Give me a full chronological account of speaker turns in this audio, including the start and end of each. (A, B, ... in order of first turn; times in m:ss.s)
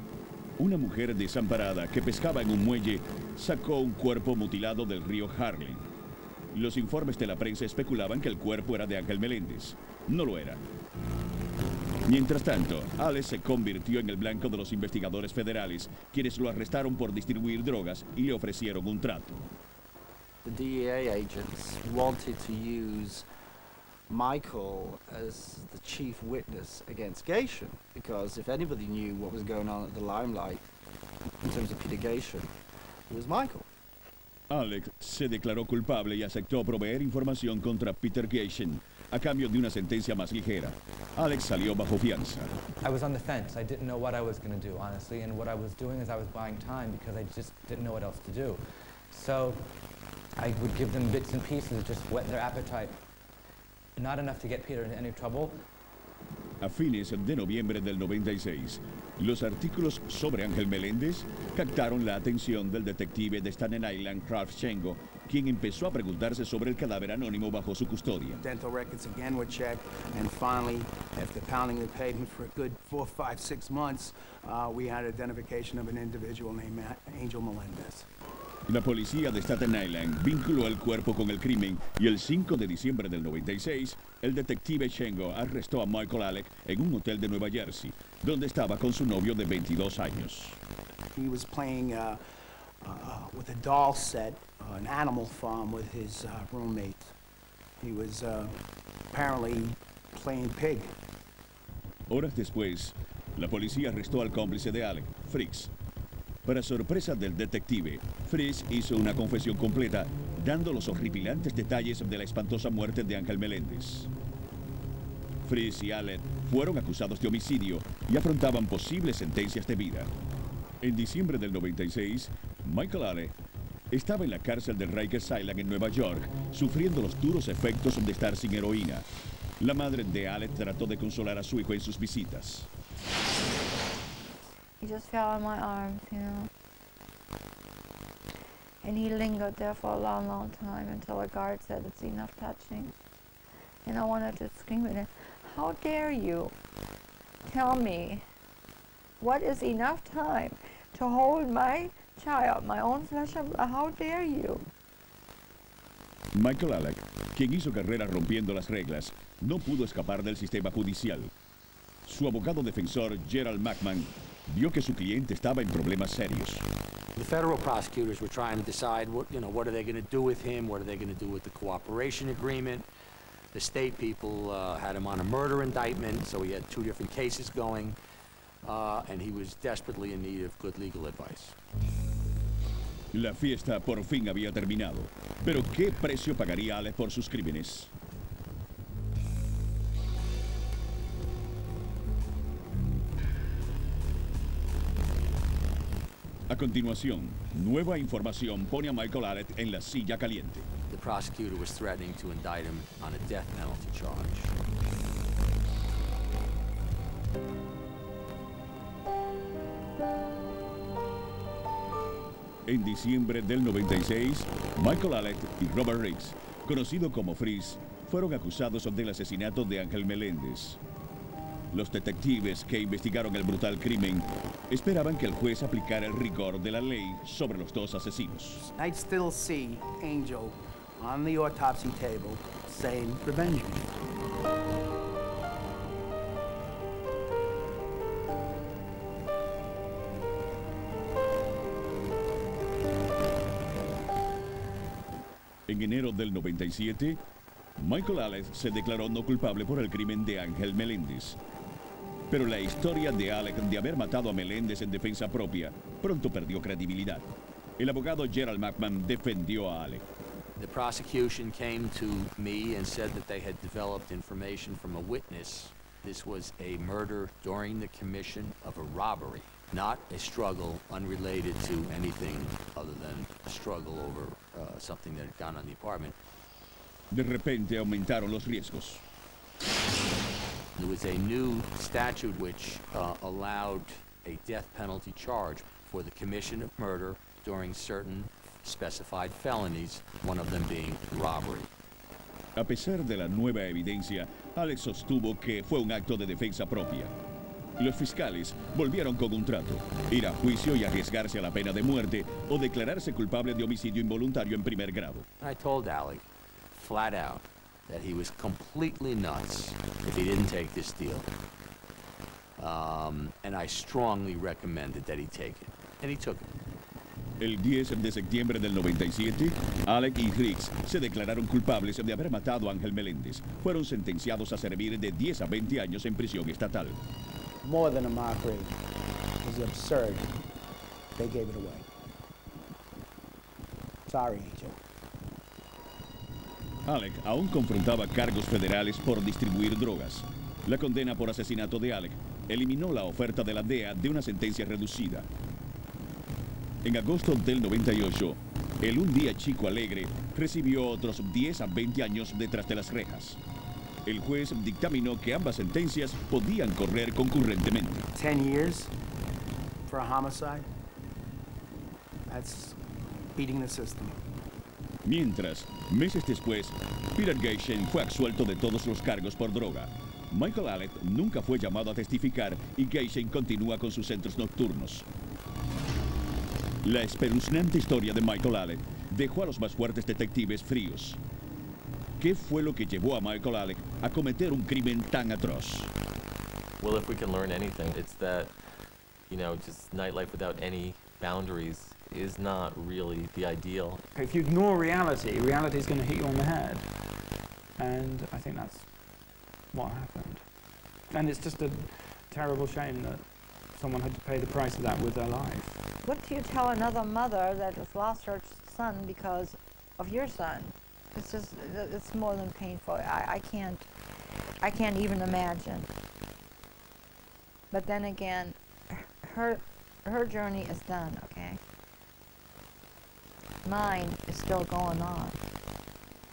0:00.6-0:05.9 A
0:06.5-0:10.6 A
0:12.0-0:19.4 A
0:20.4-0:23.2 B
0:24.1-0:30.6 B
0:31.4-0:32.5 B
0:33.1-0:33.6 B
0:34.5-0:42.5 A
0:42.8-0:49.7 C
0:50.4-0:53.0 C
0:54.0-0:55.6 C
0:56.6-1:08.4 A
1:08.4-1:18.0 D
1:18.7-1:30.6 A
1:31.1-1:32.2 D
1:32.8-1:37.1 D
1:37.8-1:38.6 D
1:39.1-1:40.9 D
1:42.1-1:45.7 A
1:46.4-1:54.1 A
1:55.4-2:00.1 A
2:00.8-2:03.3 A
2:03.9-2:09.0 A
2:09.6-2:12.7 A
2:14.8-2:16.5 E
2:18.8-2:22.9 E
2:23.8-2:26.5 E
2:27.4-2:28.2 E
2:29.2-2:34.6 E
2:36.3-2:41.3 A
2:42.0-2:46.6 A
2:47.2-2:52.8 F
2:53.5-2:58.0 F
2:58.6-3:01.6 F
3:03.1-3:07.9 A
3:16.5-3:20.7 A
3:20.9-3:24.5 F
3:32.7-3:40.8 A
3:41.7-3:48.7 A
3:48.7-3:53.9 D
4:05.7-4:07.2 A
4:07.8-4:11.4 A
4:12.3-4:17.3 A
4:17.8-4:20.0 A
4:20.6-4:36.1 F
4:37.1-4:39.0 A
4:40.8-4:51.7 F
4:52.6-4:57.1 A
4:57.8-5:05.2 A
5:05.4-5:11.2 F
5:12.6-5:16.5 F
5:17.4-5:27.0 A
5:27.6-5:28.7 D
5:29.4-5:30.3 D
5:31.2-5:31.8 D
5:34.1-5:34.8 D
5:36.8-5:45.3 A
5:46.8-5:53.4 A
5:54.0-5:58.1 A
5:58.1-5:58.9 D
5:59.8-6:00.6 D
6:02.3-6:02.8 D
6:03.4-6:04.2 D
6:05.0-6:15.1 A
6:16.8-6:21.2 A
6:22.2-6:25.9 A
6:26.8-6:28.5 G
6:29.3-6:34.0 G
6:34.1-6:36.8 H
6:37.8-6:38.9 H
6:39.7-6:40.4 H
6:41.1-6:43.2 H
6:43.7-6:45.8 H
6:46.0-6:53.8 E
6:54.6-6:55.9 E
6:57.7-7:01.6 E
7:03.6-7:05.4 E